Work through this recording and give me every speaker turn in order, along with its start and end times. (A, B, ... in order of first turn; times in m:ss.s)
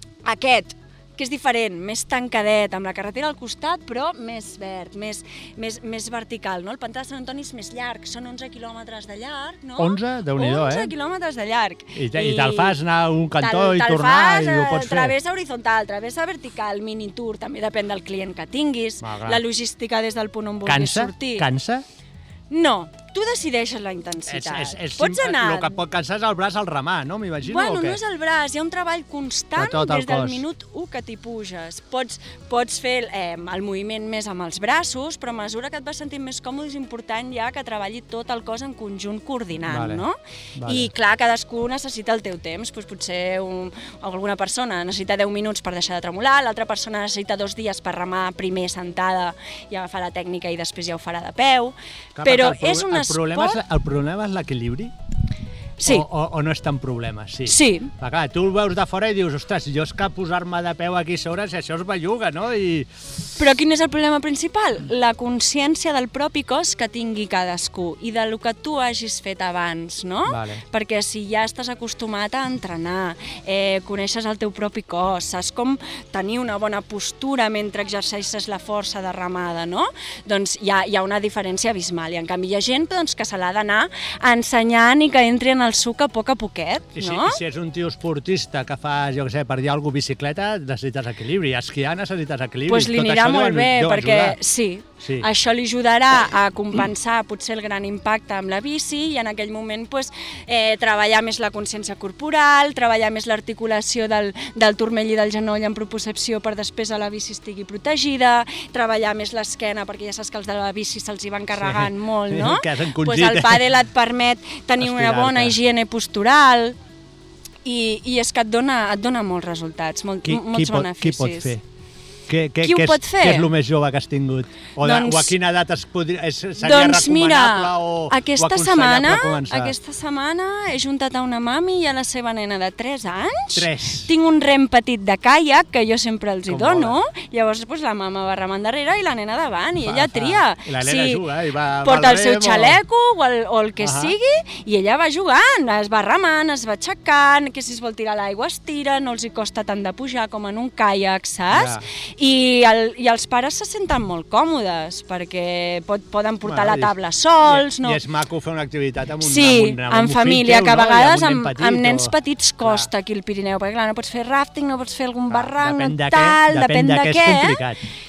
0:00.2-0:12.8 A
0:09.8-0:10.9 B
0:12.0-0:15.2 B
0:13.4-0:21.5 A
0:19.0-0:19.4 B
0:20.7-0:21.8 B
0:22.5-0:25.8 A
0:24.3-0:28.0 B
0:27.4-0:53.6 A
0:29.6-0:30.4 B
0:39.7-0:40.0 B
0:40.6-0:40.9 B
0:52.2-0:54.9 B
0:55.8-0:56.1 A
0:55.8-1:02.9 B
0:57.5-0:57.9 A
1:03.4-1:27.4 A
1:10.3-1:10.6 B
1:27.0-1:34.4 B
1:32.7-1:56.8 A
1:35.0-1:35.3 B
1:51.6-1:53.7 B
1:54.8-1:55.6 B
1:57.6-2:01.6 A
2:00.2-2:01.6 B
2:02.3-2:09.8 B
2:02.6-2:03.5 A
2:04.8-2:05.4 A
2:06.6-2:21.2 A
2:13.6-2:14.1 B
2:16.5-2:17.0 B
2:19.8-2:22.8 B
2:21.8-2:38.0 A
2:23.8-2:24.1 B
2:31.5-2:31.8 B
2:36.4-2:42.9 B
2:39.2-2:47.6 A
2:45.3-2:47.8 B